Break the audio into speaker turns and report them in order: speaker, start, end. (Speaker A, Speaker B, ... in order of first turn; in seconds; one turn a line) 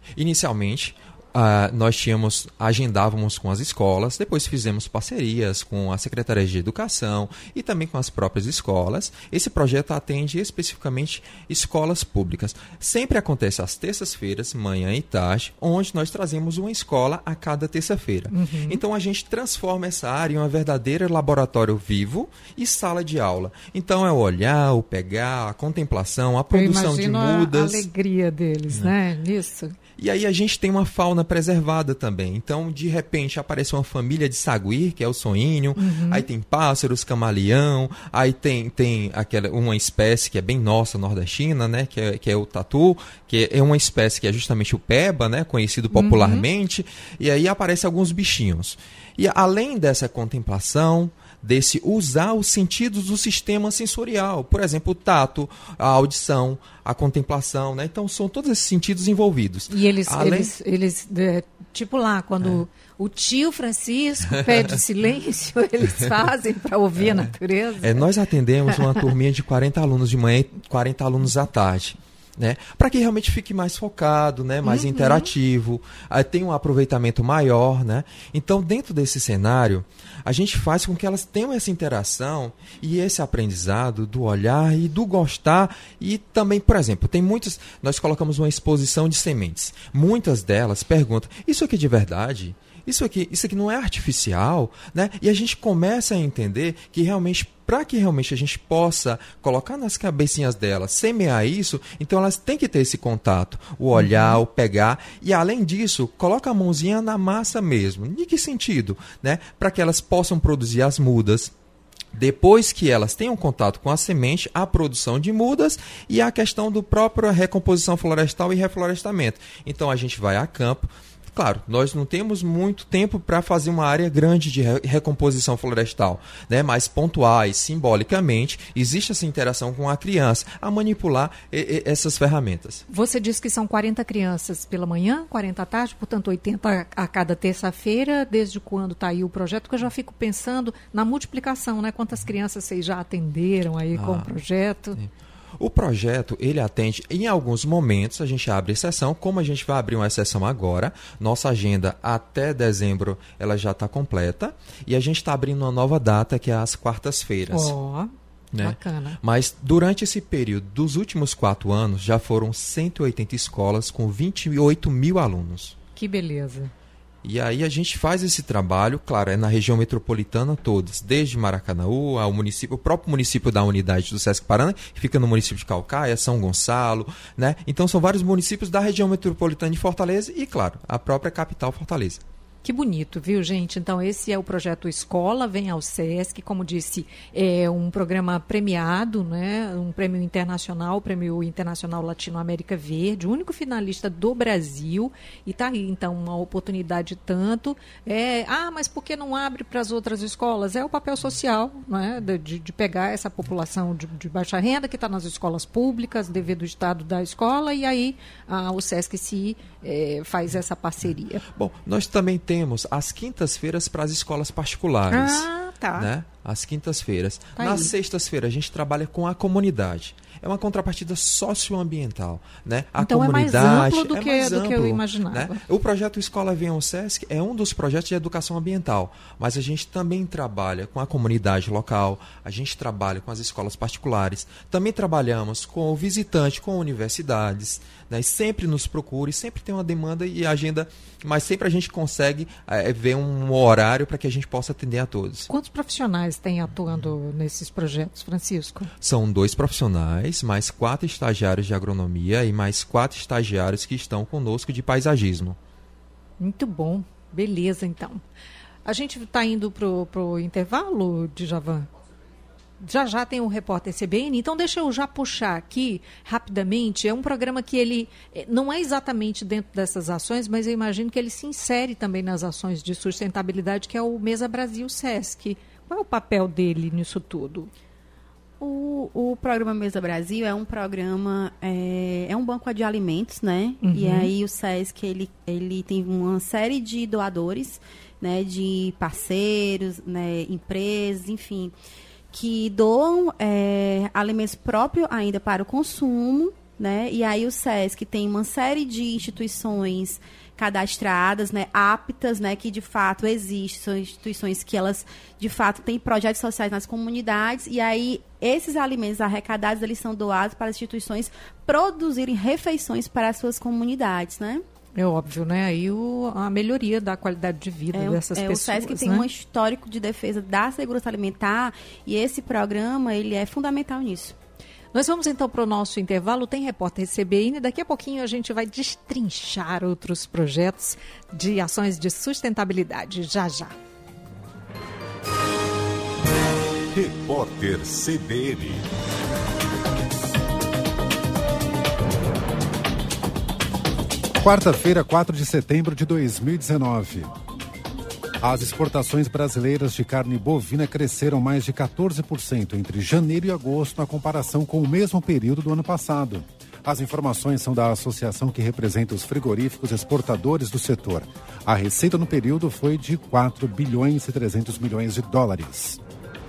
Speaker A: 0.1-27.9
Speaker B: 18.3-18.8
Speaker B: 26.5-29.8
Speaker A: 30.0-60.5
Speaker B: 35.8-36.2
Speaker B: 45.9-46.5
Speaker B: 59.7-68.1
Speaker A: 67.0-67.3
Speaker A: 67.8-111.5
Speaker B: 74.6-75.3
Speaker B: 103.9-104.4
Speaker A: 112.1-132.8
Speaker B: 132.9-145.0
Speaker A: 143.9-144.3
Speaker A: 144.9-157.7
Speaker B: 157.5-159.2
Speaker A: 158.5-165.8
Speaker B: 165.9-166.7
Speaker A: 167.2-182.2
Speaker B: 182.6-211.4
Speaker A: 211.5-245.5
Speaker B: 215.1-216.1
Speaker B: 217.6-217.9
Speaker B: 223.0-225.6
Speaker B: 245.5-248.9
Speaker A: 249.0-255.6
Speaker B: 256.4-258.2
Speaker B: 258.8-261.9
Speaker B: 262.8-277.7
Speaker C: 278.6-291.7
Speaker B: 283.8-284.3
Speaker C: 292.3-314.6
Speaker B: 314.9-319.3
Speaker C: 317.9-324.3
Speaker B: 324.9-333.7
Speaker D: 336.9-338.9
Speaker E: 344.4-347.3
Speaker E: 348.4-366.0